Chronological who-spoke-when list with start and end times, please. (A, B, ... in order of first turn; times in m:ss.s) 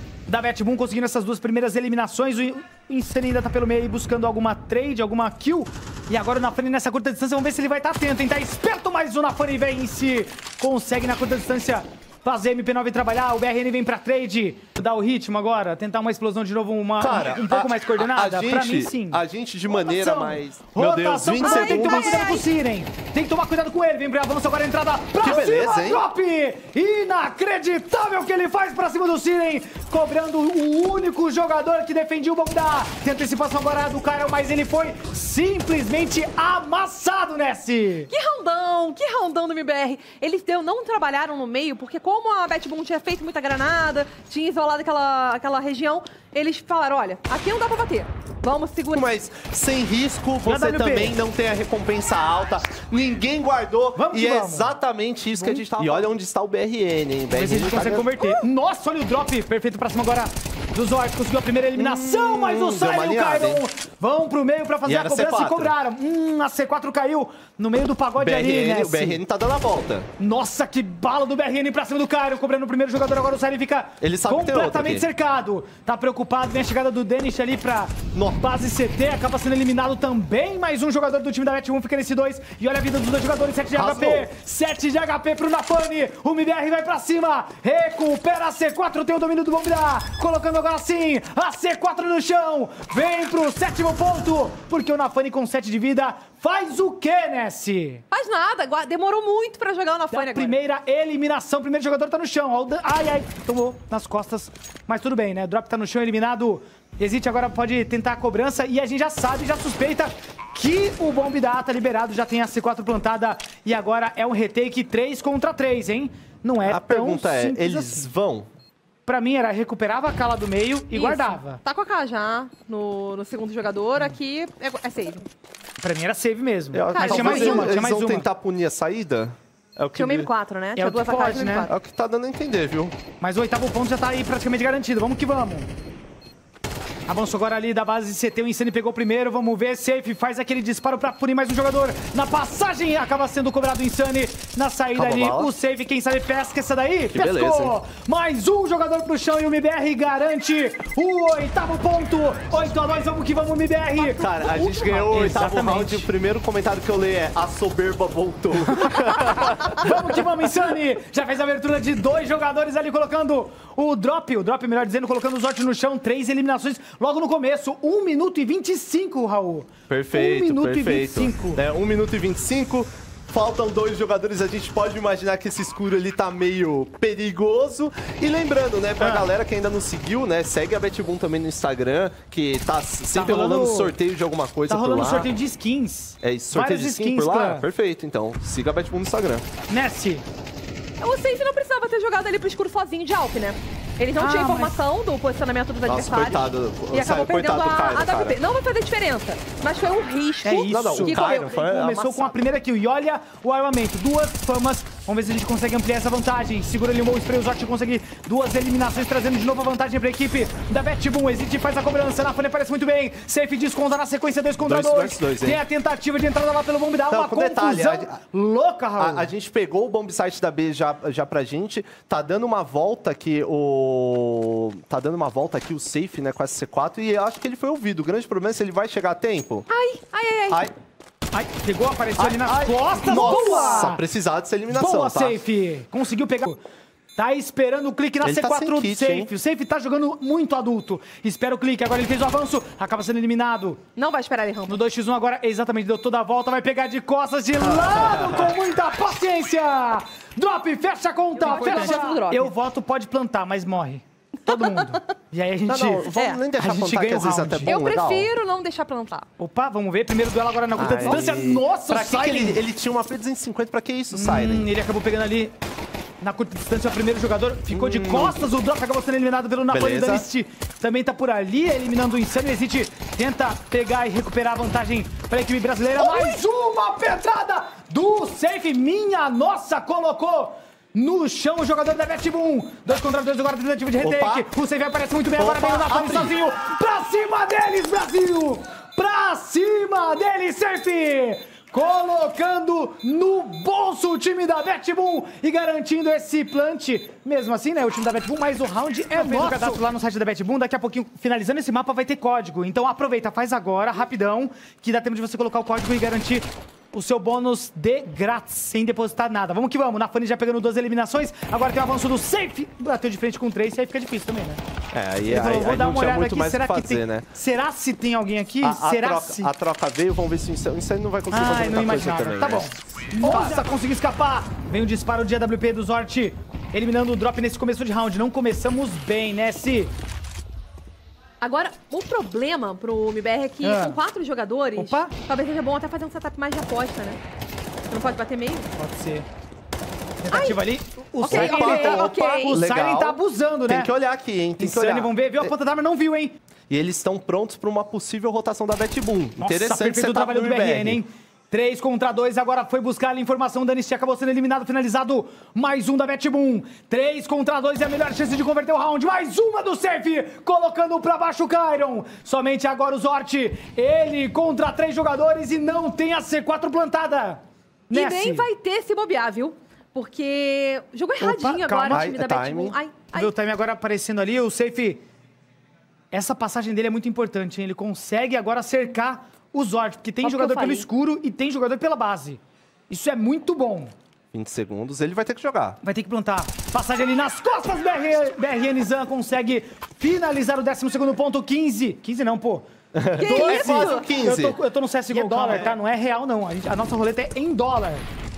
0:00.3-0:38.1 A
0:17.0-0:22.3 B
0:21.4-0:22.4 C
0:25.2-0:26.0 B
0:38.1-0:49.0 C
0:48.9-0:58.1 B
0:50.4-0:51.2 A
0:53.9-0:54.7 A
0:55.3-0:56.1 A
0:57.3-1:09.2 A
1:01.8-1:03.6 B
1:04.8-1:05.7 B
1:08.2-1:10.1 B
1:10.2-1:38.0 A
1:14.0-1:15.1 B
1:18.1-1:18.4 B
1:23.7-1:24.3 B
1:38.1-1:40.6 C
1:40.1-1:58.1 A
1:56.6-1:58.5 B
1:59.0-2:01.6 A
2:00.9-2:05.2 C
2:05.8-2:08.3 A
2:06.7-2:10.3 B
2:06.9-2:07.8 C
2:10.0-2:11.7 C
2:10.8-2:11.7 A
2:11.7-2:12.9 B
2:13.2-2:15.7 A
2:17.1-2:36.1 A
2:24.9-2:25.5 B
2:27.1-2:27.8 B
2:34.0-2:34.7 C
2:34.1-2:40.2 B
2:38.7-2:51.6 A
2:49.9-3:05.3 B
2:59.0-2:59.3 A
3:03.1-3:04.0 A
3:04.7-3:07.6 A
3:06.2-3:09.4 B
3:09.7-3:10.2 A
3:11.0-3:22.4 C
3:14.2-3:14.8 A
3:15.8-3:18.4 B
3:20.4-3:39.3 A
3:20.6-3:22.0 B
3:34.6-3:35.6 B
3:37.1-3:38.2 B
3:39.0-3:49.7 B
3:49.7-3:50.6 C
3:51.3-3:54.0 A
3:52.2-3:55.4 B
3:53.0-3:53.9 C
3:54.7-3:56.6 A
3:57.2-4:03.8 A
3:58.2-3:59.3 B
4:04.0-4:04.8 C
4:04.7-4:17.7 A
4:07.6-4:08.5 B
4:11.4-4:12.5 C
4:14.4-4:15.0 C
4:15.6-4:18.3 B
4:16.1-4:16.4 C
4:17.6-4:19.2 C
4:19.4-4:22.6 A
4:20.7-4:24.7 B
4:24.1-4:25.5 A
4:26.2-5:14.6 A
4:27.7-4:28.4 B
4:29.7-4:30.2 B
4:44.0-4:44.4 B
4:45.4-4:46.4 B
4:59.2-4:59.5 C
5:14.9-5:17.2 B
5:15.3-5:19.5 A
5:18.6-5:23.7 B
5:21.3-5:29.9 A
5:31.4-5:37.2 C
5:33.6-5:34.0 A
5:34.8-5:35.1 A
5:37.9-5:38.7 C
5:38.8-5:39.3 A
5:40.2-5:43.9 A
5:40.3-5:40.6 C
5:41.2-5:42.6 C
5:41.3-5:45.5 B
5:44.6-5:46.4 A
5:46.7-5:51.0 B
5:49.4-6:08.5 A
6:07.9-6:13.3 C
6:11.2-6:12.1 A
6:11.9-6:12.8 B
6:13.1-6:15.0 A
6:16.1-6:23.9 A
6:20.2-6:20.9 C
6:24.3-6:25.8 B
6:25.8-6:32.6 A
6:32.9-6:34.6 B
6:33.2-6:34.0 C
6:33.2-6:38.0 A
6:35.1-6:35.7 C
6:35.2-6:35.8 B